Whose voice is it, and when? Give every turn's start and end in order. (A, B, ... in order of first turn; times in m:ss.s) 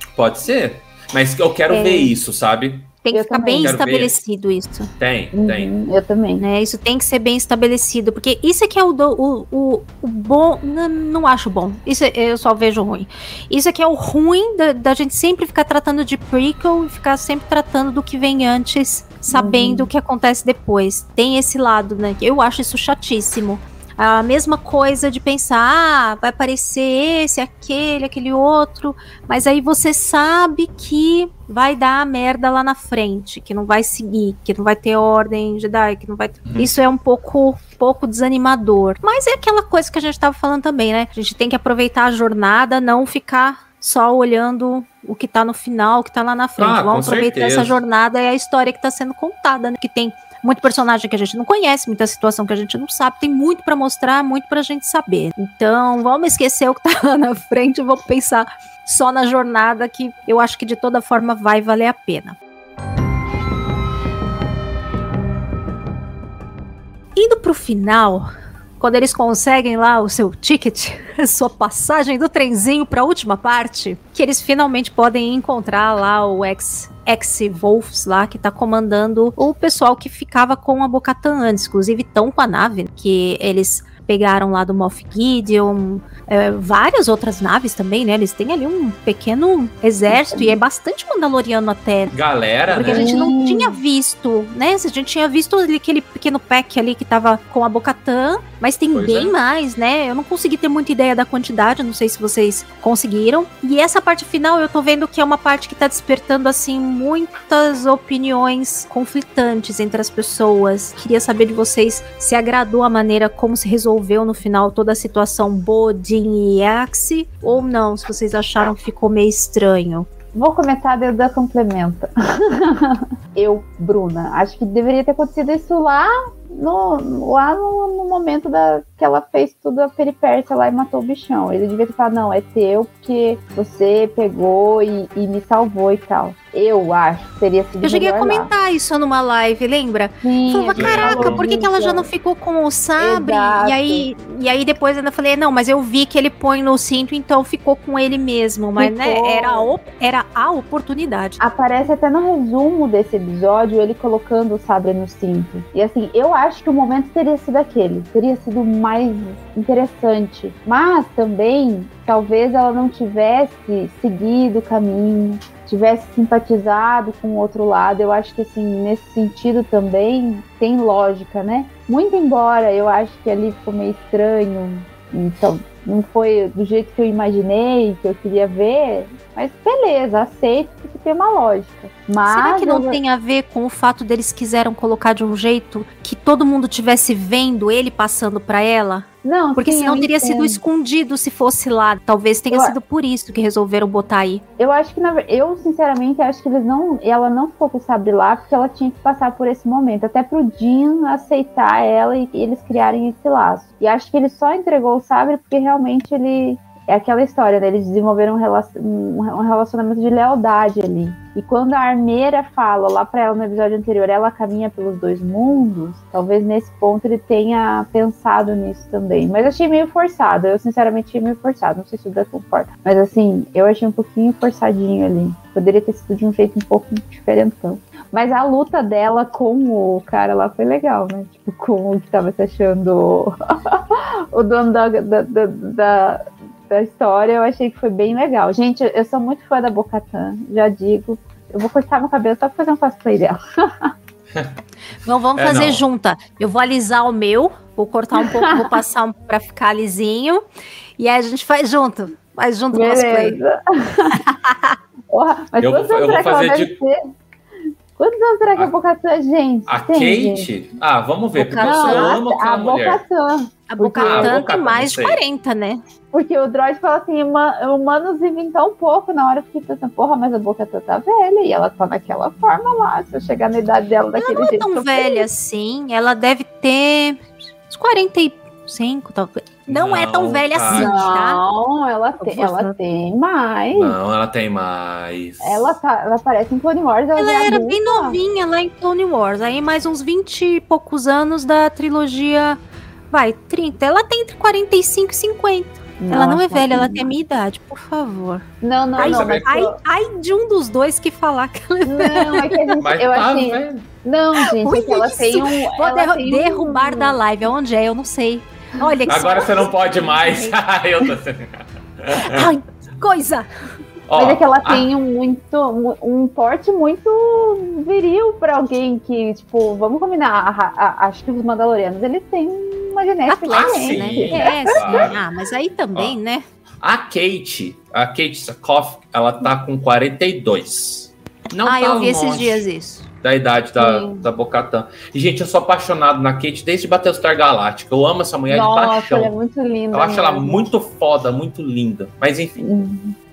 0:00.1-0:03.0 A
0:01.7-0:02.1 B
0:03.0-0:04.9 B
0:03.1-0:03.7 C
0:03.6-0:04.2 A
0:05.0-0:05.7 A
0:05.3-0:06.4 C
0:06.4-1:02.4 B
0:19.3-0:19.9 C
0:36.4-0:36.7 A
0:46.6-0:47.8 A
1:07.2-1:08.3 B
1:08.8-1:32.1 B
1:30.1-1:30.6 C
1:32.1-1:33.2 A
1:32.7-2:00.1 B
1:32.8-1:33.7 C
1:38.9-1:39.3 A
2:00.3-2:18.5 C
2:17.8-2:31.4 B
2:20.2-2:22.1 C
2:20.8-2:21.4 A
2:23.0-2:24.1 C
2:28.8-2:29.7 C
2:31.4-3:03.0 C
3:02.3-3:14.4 B
3:09.2-3:10.6 C
3:14.6-4:03.9 C
4:05.0-4:10.4 B
4:05.4-4:05.8 A
4:08.2-4:08.7 C
4:11.0-4:13.4 B
4:12.7-4:14.2 C
4:14.2-4:14.8 B
4:15.1-4:16.9 C
4:15.6-4:16.7 A
4:18.0-4:20.5 C
4:19.7-4:23.0 A
4:21.3-4:22.1 B
4:21.6-4:24.4 C
4:23.7-4:25.8 B
4:24.0-4:25.2 A
4:26.1-4:35.2 C
4:34.2-4:41.4 B
4:39.7-4:40.9 A
4:40.7-4:43.9 C
4:42.2-4:42.8 B
4:43.8-4:45.8 A
4:45.4-4:48.2 C
4:47.2-4:52.6 B
4:53.1-4:58.4 B
4:56.0-4:57.1 C
4:58.6-4:59.7 C
4:59.0-4:59.5 A
4:59.0-5:02.5 B
5:01.9-5:07.2 C
5:02.8-5:03.8 A
5:04.4-5:10.6 B
5:09.1-5:12.5 A
5:12.2-5:13.4 B
5:14.1-5:14.8 A
5:14.2-5:25.1 C
5:23.3-5:26.4 B
5:23.5-5:25.2 A
5:26.8-5:32.6 A
5:31.6-5:33.0 B
5:33.2-5:39.3 A
5:33.8-5:34.2 C
5:38.5-5:40.7 C
5:39.9-5:42.6 A
5:42.6-5:43.1 C